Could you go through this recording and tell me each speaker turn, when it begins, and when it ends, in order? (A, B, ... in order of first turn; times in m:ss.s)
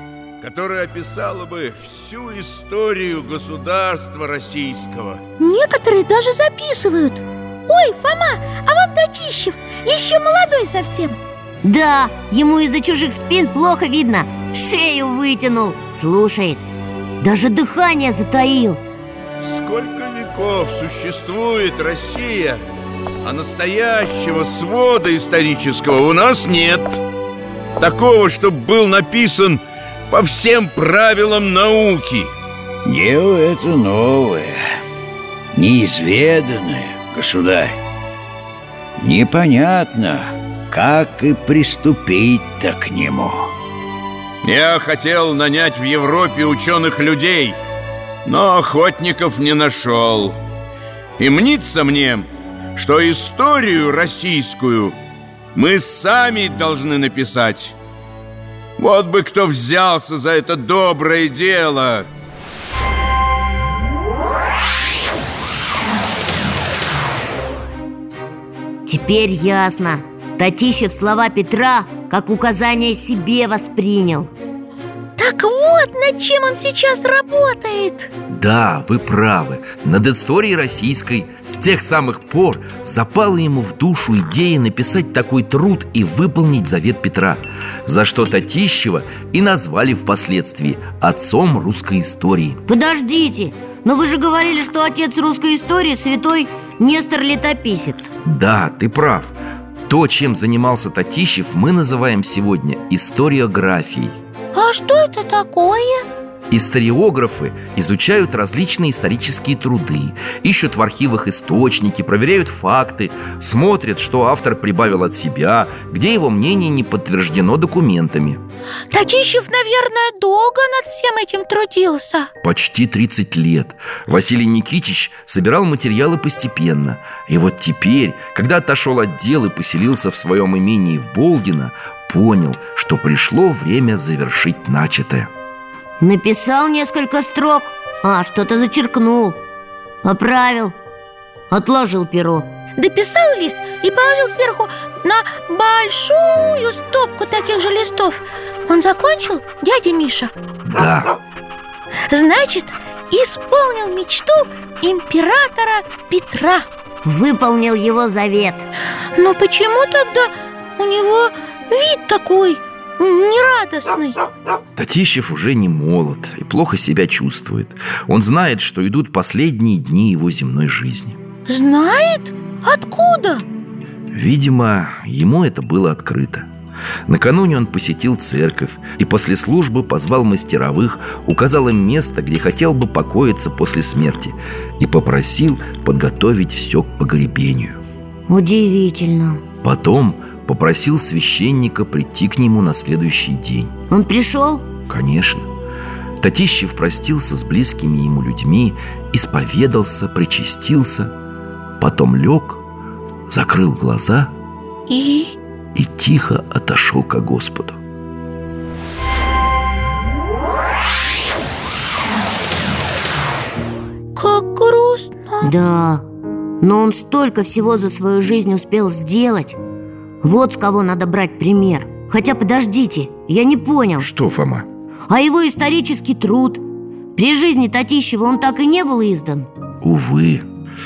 0:00.4-0:05.2 A
0:05.4-0:11.2 B
0:11.6-0:16.6 C
0:17.2-0:18.8 C
0:19.4-0:22.6 A
0:23.2-0:27.0 A
0:27.8-0:32.3 A
0:32.8-0:34.6 D
0:35.5-0:37.8 D
0:39.0-0:43.5 D
0:44.4-0:47.6 A
0:48.2-0:50.4 A
0:51.2-0:55.0 A
0:55.5-0:57.7 A
0:58.8-1:02.1 A
1:08.8-1:14.3 C
1:15.2-1:18.1 B
1:18.3-1:32.6 E
1:32.7-1:38.1 C
1:38.2-1:39.3 E
1:39.9-1:44.2 E
1:44.5-1:46.1 B
1:46.5-1:58.4 E
1:58.9-2:02.3 B
2:02.4-2:15.3 E
2:16.0-2:19.4 C
2:20.0-2:20.8 C
2:21.5-2:22.5 C
2:22.8-2:30.3 B
2:30.6-2:31.1 E
2:32.1-2:36.7 B
2:37.0-2:38.7 C
2:39.2-2:44.2 B
2:44.8-2:51.2 E
2:51.5-2:53.4 B
2:54.1-2:56.5 E
2:57.1-3:07.8 E
3:08.3-3:09.4 C
3:09.6-3:13.7 E
3:13.9-3:14.7 C
3:14.9-3:15.5 E
3:16.2-3:21.1 E
3:21.8-3:22.6 E
3:23.3-3:24.3 E
3:24.9-3:25.3 B
3:25.8-3:27.8 E
3:34.2-3:35.5 B
3:35.4-3:36.0 C
3:36.6-3:39.6 C
3:40.2-3:44.1 C
3:44.0-3:44.7 E
3:45.1-3:46.6 C
3:47.2-3:49.5 C
3:49.8-3:50.4 E